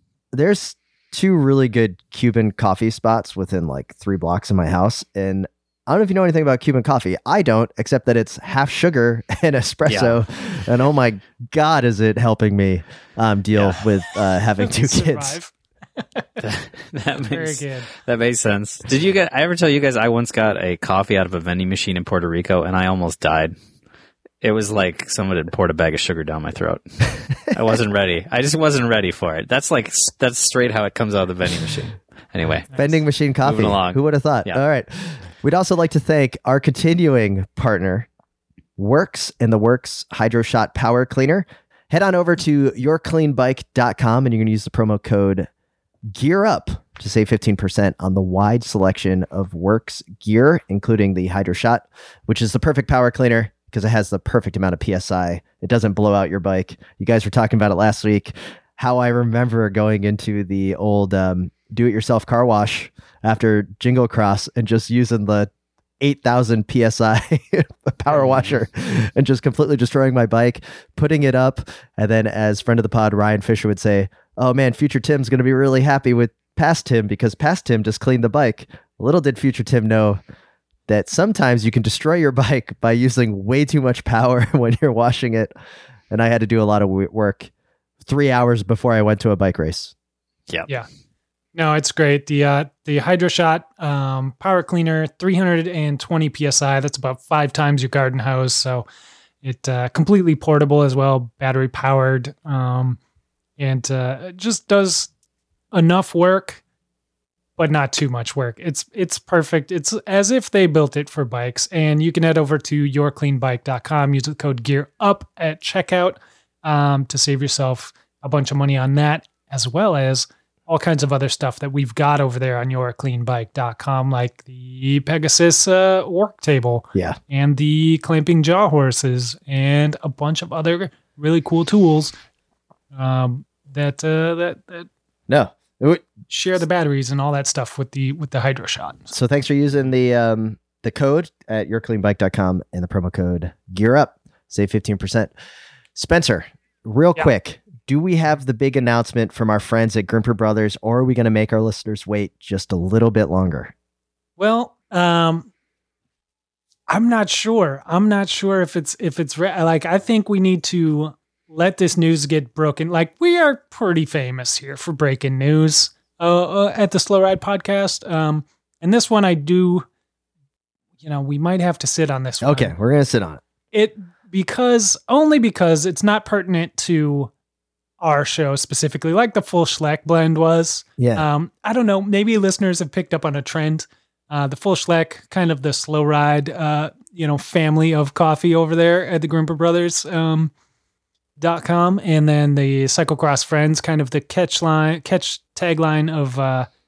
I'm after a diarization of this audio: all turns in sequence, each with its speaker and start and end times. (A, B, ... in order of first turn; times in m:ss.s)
0:00.3-0:15.3 A
0:09.8-0:10.2 B
0:14.6-0:16.4 C
0:16.4-0:23.6 B
0:17.3-0:17.9 C
0:24.4-0:32.8 B
0:32.7-0:38.1 A
0:33.4-0:34.6 B
0:38.8-0:45.5 A
0:46.1-1:20.2 A
1:20.9-1:25.5 A
1:26.1-1:27.5 A
1:28.0-1:29.9 A
1:31.5-1:38.9 C
1:39.4-1:43.0 C
1:43.6-1:45.1 C
1:45.7-1:46.6 C
1:47.6-2:12.1 C
2:12.9-2:14.9 C
2:15.3-2:16.1 A
2:16.3-2:19.1 C
2:19.1-2:25.3 A
2:25.9-2:33.7 A
2:34.4-2:35.5 C
2:36.9-2:49.8 C
2:51.0-2:52.7 C
2:52.4-2:53.4 A
2:53.7-2:57.3 C
2:58.0-3:10.5 C
3:01.0-3:01.2 A
3:11.4-3:16.7 C